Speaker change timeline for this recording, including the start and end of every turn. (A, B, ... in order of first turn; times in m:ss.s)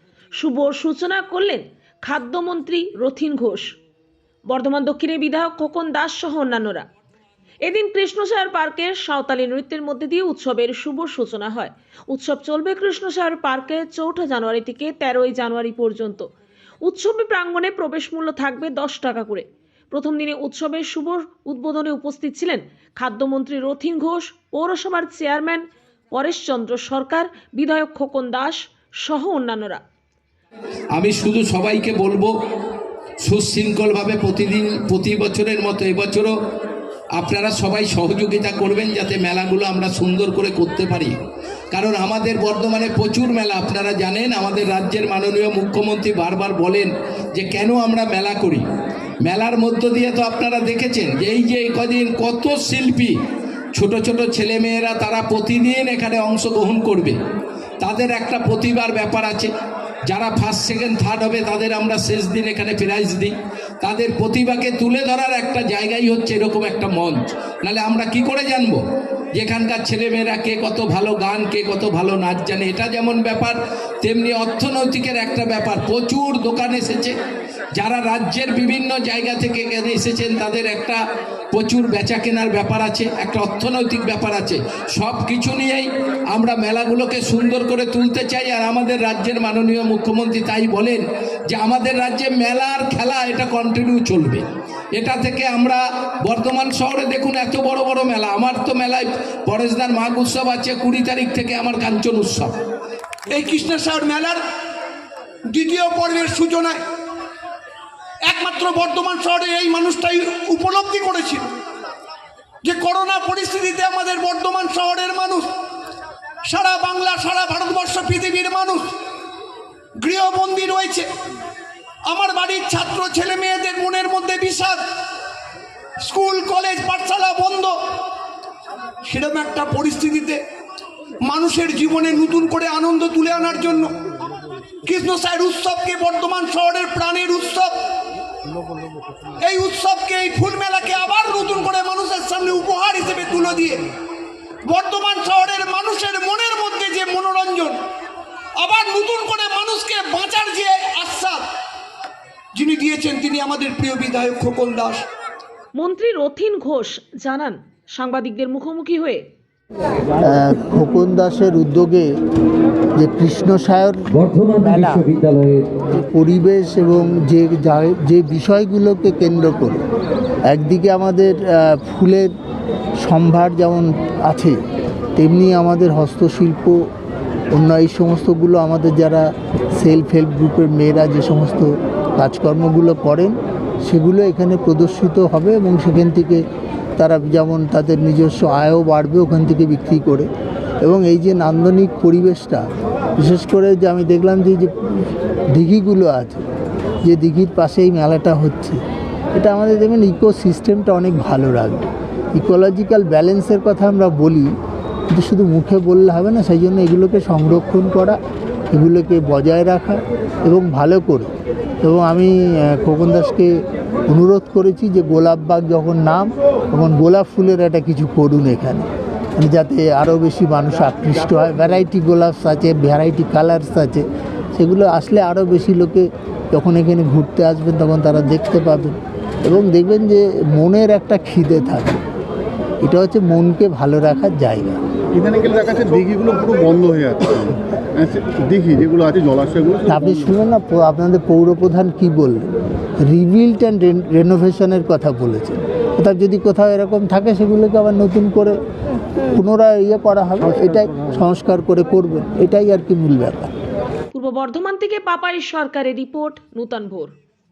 0:00.4-0:03.7 A
0:04.5-0:06.8 A
0:07.6-0:16.2 A
0:16.8-0:29.8 A
0:30.9-0:32.3 B
0:33.2-0:36.3 B
0:37.2-0:41.2 B
0:41.7-0:48.6 B
0:49.2-0:53.1 B
0:53.7-0:57.1 B
0:57.8-0:59.5 B
1:00.1-1:08.8 B
1:09.3-1:17.1 B
1:17.8-1:21.0 B
1:21.5-1:34.4 B
1:35.0-1:42.5 B
1:43.3-1:44.4 C
1:45.5-1:46.8 C
1:48.2-1:51.5 C
1:52.6-1:55.5 C
1:56.4-1:58.9 C
2:00.0-2:01.1 C
2:02.0-2:04.8 C
2:06.0-2:07.8 C
2:09.0-2:10.4 C
2:11.2-2:14.0 C
2:14.8-2:17.7 C
2:19.4-2:23.8 C
2:24.6-2:27.8 C
2:28.6-2:31.5 C
2:32.5-2:35.0 C
2:35.7-2:39.2 A
2:40.2-2:42.1 D
2:43.0-2:45.1 D
2:44.3-2:45.6 E
2:45.8-2:49.8 D
2:50.5-2:52.3 D
2:53.0-2:54.6 D
2:55.2-2:56.8 D
2:57.5-2:59.3 D
2:59.8-3:06.4 D
3:07.0-3:10.3 D
3:10.8-3:12.6 D
3:13.2-3:14.7 D
3:15.5-3:16.4 D
3:17.0-3:18.8 D
3:19.3-3:24.5 D
3:25.1-3:28.2 D
3:28.7-3:31.3 D
3:31.8-3:33.5 D
3:34.1-3:52.0 D
3:52.8-3:54.8 D
3:55.4-3:55.8 E
3:56.3-3:56.9 E
3:59.8-4:02.5 D
4:03.0-4:08.5 D
4:09.3-4:13.5 D
4:14.1-4:17.1 A